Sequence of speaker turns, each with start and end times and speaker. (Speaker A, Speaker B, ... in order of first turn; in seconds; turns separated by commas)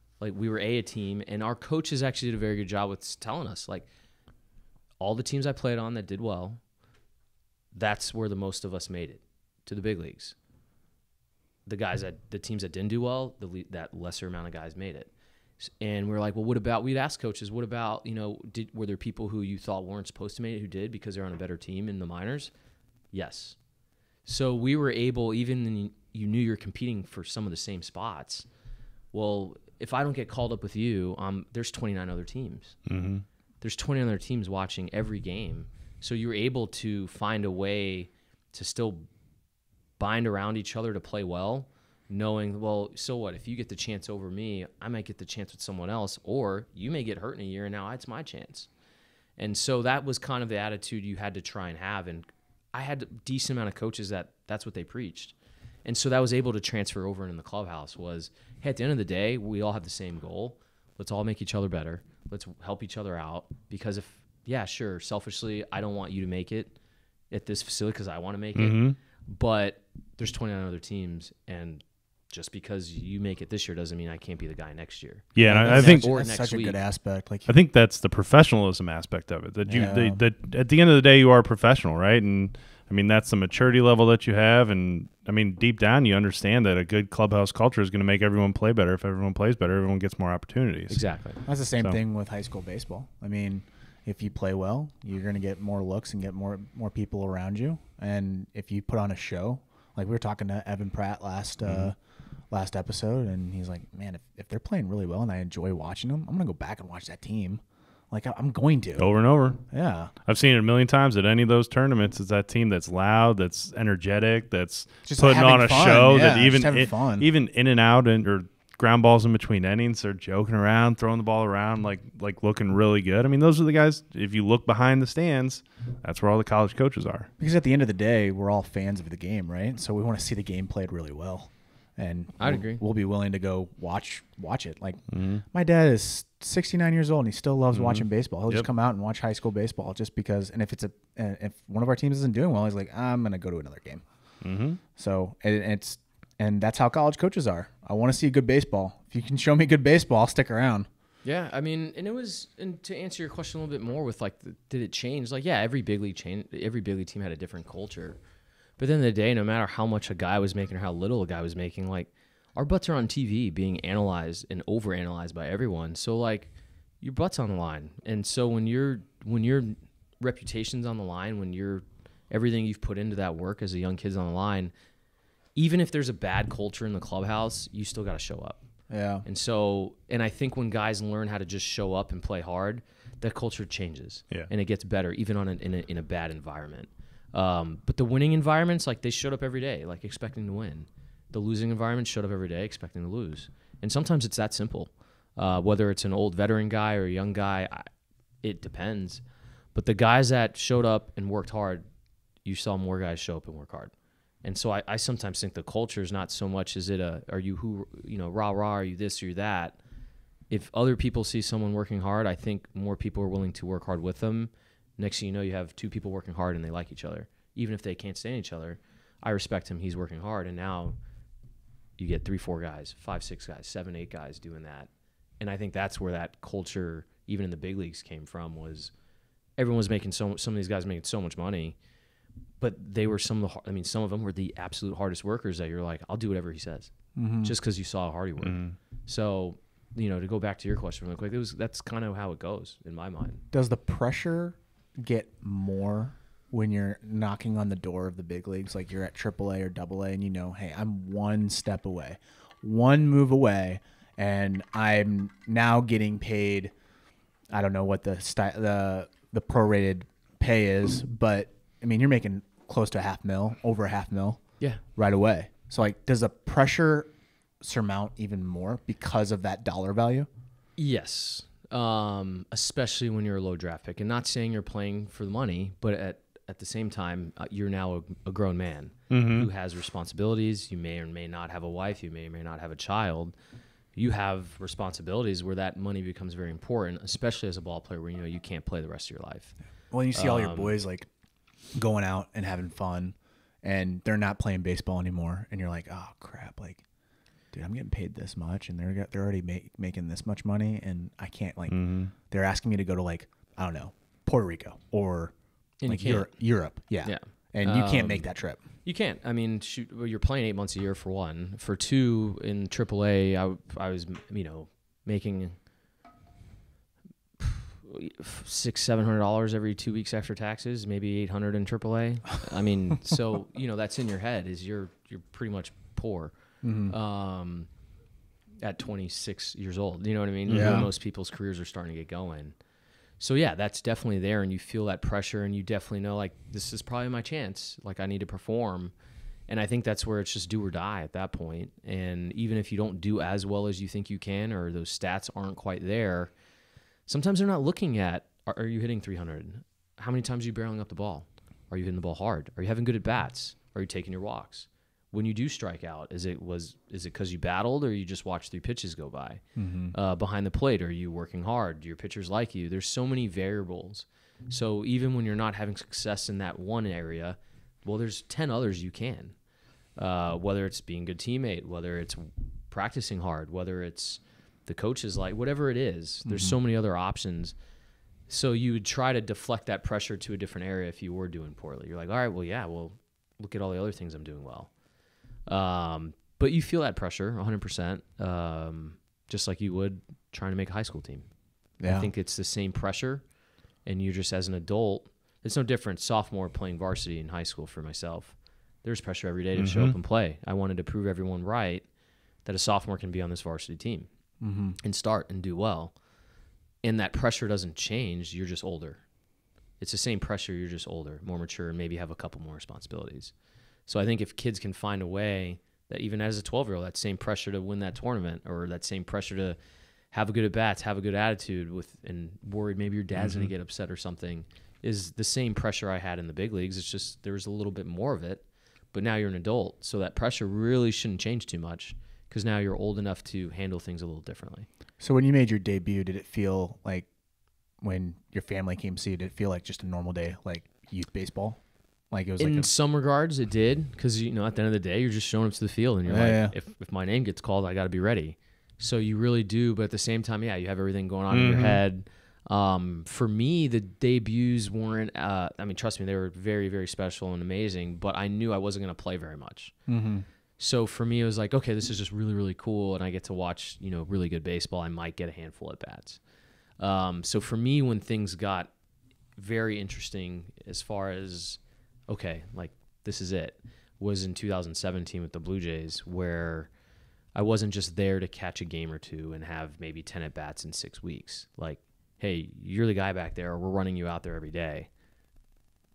Speaker A: 0.2-3.9, Speaker A: 5.0-6.6, Speaker A: 7.7-10.3, Speaker A: 11.7-22.5, Speaker A: 23.1-23.6, Speaker A: 24.2-28.5, Speaker A: 29.1-32.8, Speaker B: 32.9-33.2, Speaker A: 33.6-39.1, Speaker A: 40.0-48.7, Speaker A: 49.4-66.7, Speaker A: 67.3-76.8, Speaker B: 68.5-69.0, Speaker B: 75.3-76.1, Speaker C: 75.5-77.5, Speaker B: 77.5-91.0, Speaker C: 79.7-80.2, Speaker A: 90.9-91.4, Speaker C: 91.5-102.0, Speaker B: 101.6-101.9, Speaker C: 102.5-109.1, Speaker B: 109.0-109.6, Speaker C: 109.7-110.1, Speaker B: 110.3-127.3, Speaker C: 115.1-117.3, Speaker C: 127.4-144.0, Speaker A: 132.4-132.8, Speaker B: 135.1-135.4, Speaker B: 137.7-138.7, Speaker B: 144.4-144.8, Speaker C: 145.0-150.9, Speaker A: 151.2-158.2, Speaker A: 158.8-174.7, Speaker A: 175.6-178.6, Speaker C: 178.9-179.2, Speaker A: 179.2-197.9, Speaker A: 198.4-199.2, Speaker A: 199.8-201.8, Speaker A: 202.4-203.9, Speaker A: 204.4-209.8, Speaker A: 210.5-221.0, Speaker A: 222.0-224.9, Speaker A: 225.4-228.9, Speaker A: 229.6-231.8, Speaker A: 232.6-243.4, Speaker C: 237.2-237.5, Speaker B: 238.4-238.8, Speaker C: 243.5-256.7, Speaker C: 257.5-267.1, Speaker C: 267.6-270.3, Speaker A: 270.8-283.4, Speaker B: 279.1-279.5, Speaker A: 283.9-289.6, Speaker C: 289.9-291.1, Speaker A: 290.1-290.8, Speaker C: 291.8-296.8, Speaker C: 297.5-305.3, Speaker B: 301.7-302.1, Speaker A: 305.8-306.3, Speaker C: 305.9-308.6, Speaker A: 307.0-308.3, Speaker A: 308.8-315.6, Speaker A: 317.4-326.3, Speaker C: 326.6-326.9, Speaker A: 326.9-327.7, Speaker A: 328.6-332.6, Speaker B: 330.5-330.9, Speaker C: 330.5-330.9, Speaker A: 333.2-338.9, Speaker A: 339.5-346.3, Speaker A: 347.1-369.4, Speaker C: 359.6-359.9, Speaker A: 370.0-377.6, Speaker C: 376.3-376.6, Speaker A: 378.3-384.7, Speaker A: 385.5-391.3, Speaker C: 391.8-392.1, Speaker A: 391.9-393.2, Speaker A: 393.9-401.9, Speaker B: 399.6-399.9, Speaker A: 402.4-404.1, Speaker C: 404.4-404.8, Speaker A: 404.8-405.9, Speaker A: 406.8-409.0, Speaker A: 409.8-413.3, Speaker A: 413.9-419.6, Speaker A: 420.1-434.7, Speaker B: 423.2-423.5, Speaker C: 435.0-437.1, Speaker C: 437.8-442.7, Speaker A: 442.4-459.7, Speaker C: 446.1-446.6, Speaker B: 451.3-451.8, Speaker C: 459.9-460.2, Speaker A: 460.6-466.2, Speaker A: 466.8-468.7, Speaker A: 469.4-476.7, Speaker A: 477.3-484.9